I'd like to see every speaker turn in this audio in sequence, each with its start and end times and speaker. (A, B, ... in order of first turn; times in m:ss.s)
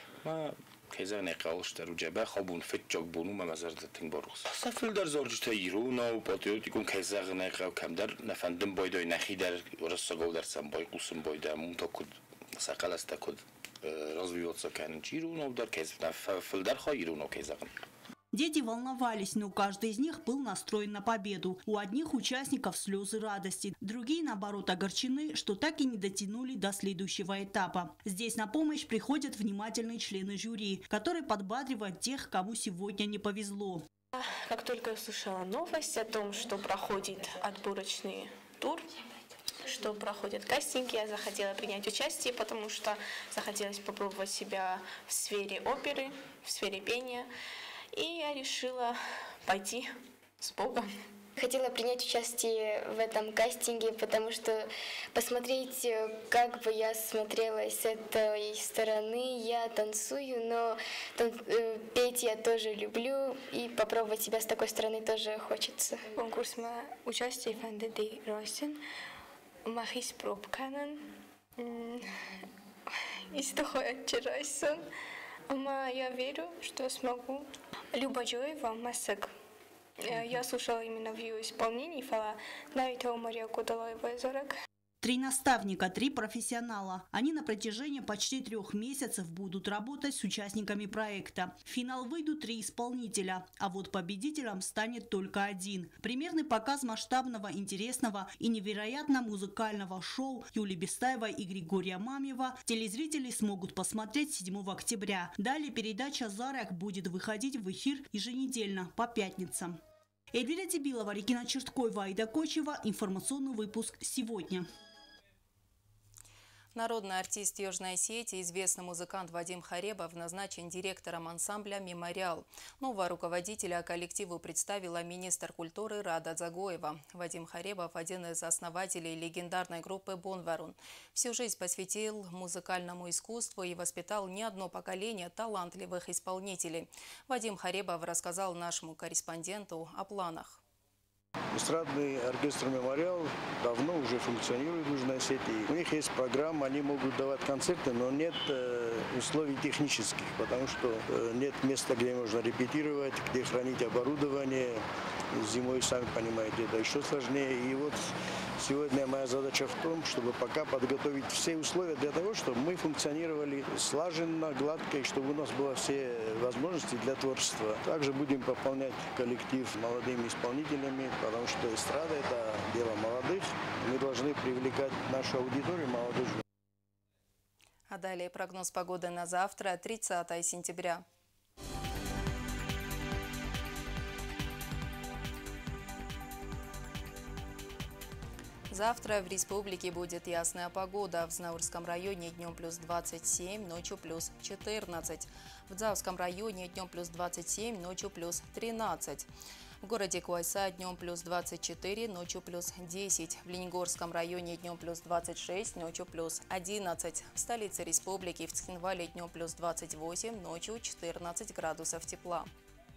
0:00.2-0:17.7 A
0:18.3-0:33.8 B
0:34.3-0:38.8 C
0:39.7-0:47.2 C
0:48.0-0:48.9 C
0:49.5-0:49.8 C
0:50.4-0:50.8 C
0:51.4-1:06.1 D
1:06.2-1:08.7 C
1:09.7-1:11.0 C
1:11.6-1:12.0 C
1:13.3-1:14.8 C
1:15.5-1:17.4 C
1:17.9-1:19.3 C
1:20.1-1:24.5 C
1:25.0-1:49.8 B
1:50.3-1:54.6 B
1:56.7-2:20.6 E
2:21.5-2:34.8 F
2:35.4-2:56.4 F
2:57.9-3:01.0 E
3:08.7-3:19.3 E
3:19.8-3:32.5 E